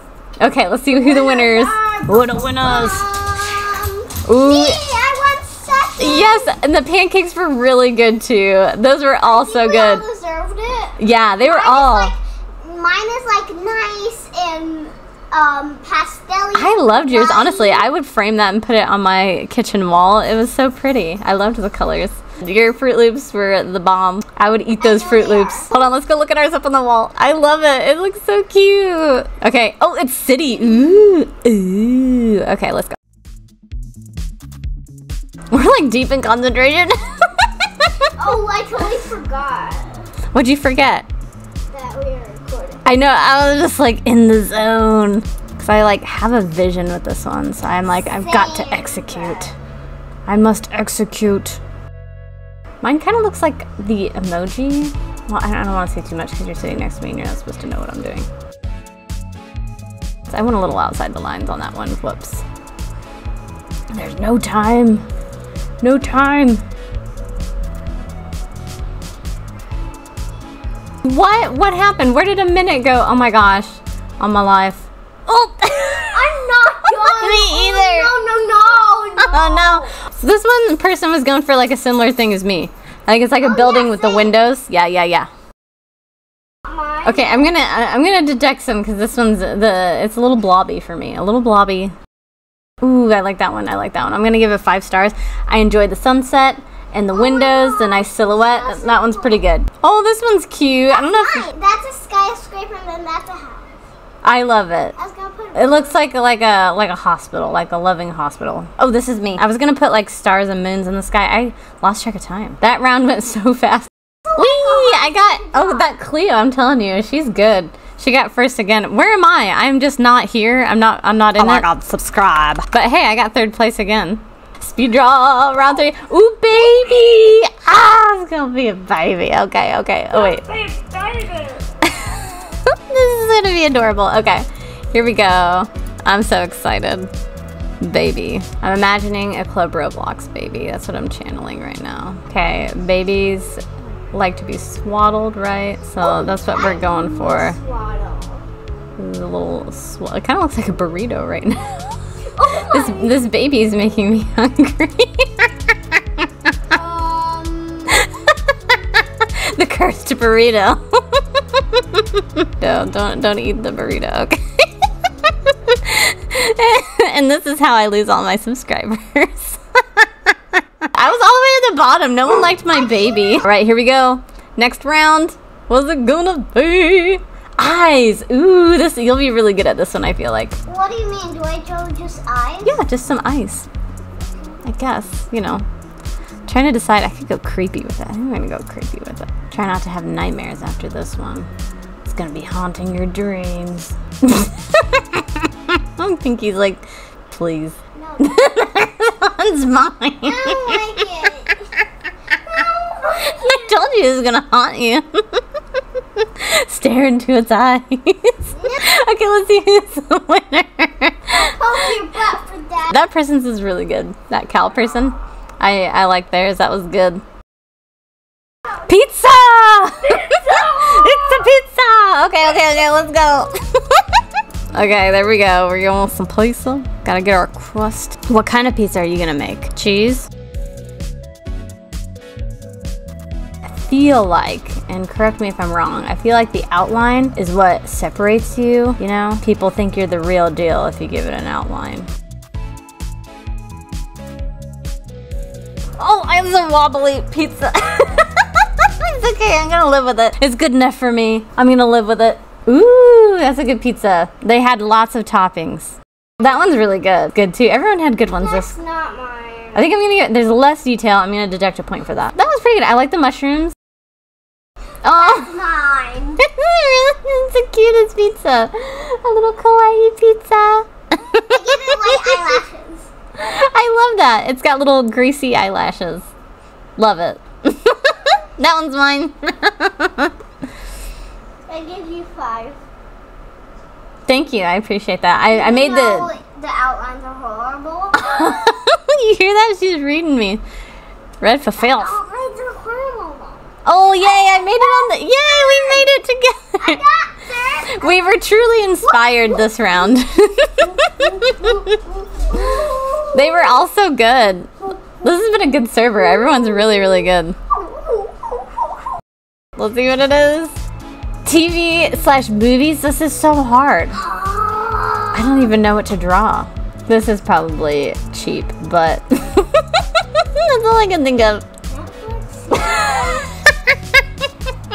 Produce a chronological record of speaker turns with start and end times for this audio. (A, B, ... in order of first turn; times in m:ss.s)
0:00.4-0:03.1 A
0:00.9-0:06.5 B
0:04.2-0:04.8 A
0:06.0-0:10.0 A
0:09.2-0:17.9 B
0:11.0-0:12.1 A
0:16.6-0:33.0 A
0:24.8-0:25.8 B
0:35.5-0:38.1 A
0:38.2-0:40.2 B
0:40.3-0:41.1 A
0:41.7-0:42.8 B
0:42.8-0:49.5 A
0:48.1-0:49.5 B
0:50.3-0:51.6 A
0:52.8-0:58.3 A
1:00.3-1:02.4 A
1:03.9-1:05.1 A
1:05.8-1:06.6 A
1:11.0-1:18.1 A
1:16.1-1:19.9 B
1:19.2-1:25.3 A
1:23.4-1:24.3 B
1:26.6-1:27.5 B
1:27.0-1:31.9 A
1:32.8-1:41.5 A
1:37.1-1:39.5 B
1:40.9-1:43.8 B
1:44.2-1:45.0 A
1:45.0-1:46.0 B
1:45.6-2:10.6 A
1:54.3-1:55.9 B
2:10.4-2:11.6 B
2:11.8-2:17.1 A
2:17.8-2:27.6 A
2:26.0-2:28.5 B
2:29.0-2:31.8 A
2:32.3-2:33.2 B
2:32.6-2:36.0 A
2:36.7-2:38.1 B
2:37.9-2:44.7 A
2:45.3-3:00.6 A
3:00.7-3:02.8 B
3:02.6-3:03.7 A
3:04.6-3:05.7 A
3:06.5-3:11.5 A
3:12.0-3:21.3 A
3:18.0-3:18.5 B
3:20.2-3:21.7 B
3:22.4-3:23.8 B
3:23.2-3:25.4 A
3:26.2-3:32.0 A
3:28.5-3:28.8 B
3:31.3-3:33.1 B
3:32.9-3:37.2 A
3:38.8-3:44.2 A
3:40.2-3:41.4 B
3:44.7-3:50.3 A
3:53.7-4:02.1 A
4:06.0-4:18.7 A
4:18.4-4:19.9 B
4:19.8-4:23.8 A
4:25.0-4:25.5 A
4:25.1-4:26.4 B
4:26.4-4:32.6 A
4:31.5-4:33.1 B
4:33.4-4:36.3 A
4:37.0-4:40.3 A
4:41.7-4:42.8 B
4:44.3-4:46.3 A
4:45.5-4:48.8 B
4:48.2-4:50.6 A
4:51.4-4:52.2 A
4:51.8-4:56.1 B
4:53.8-4:57.0 A
4:56.8-4:58.3 B
4:57.9-5:02.0 A
4:59.0-4:59.9 B
5:01.2-5:03.8 B
5:02.5-5:07.6 A
5:06.5-5:09.0 B
5:09.8-5:10.8 A
5:11.4-5:14.2 A
5:14.1-5:15.8 B
5:15.3-5:21.6 A
5:21.9-5:23.5 B
5:22.8-5:24.2 A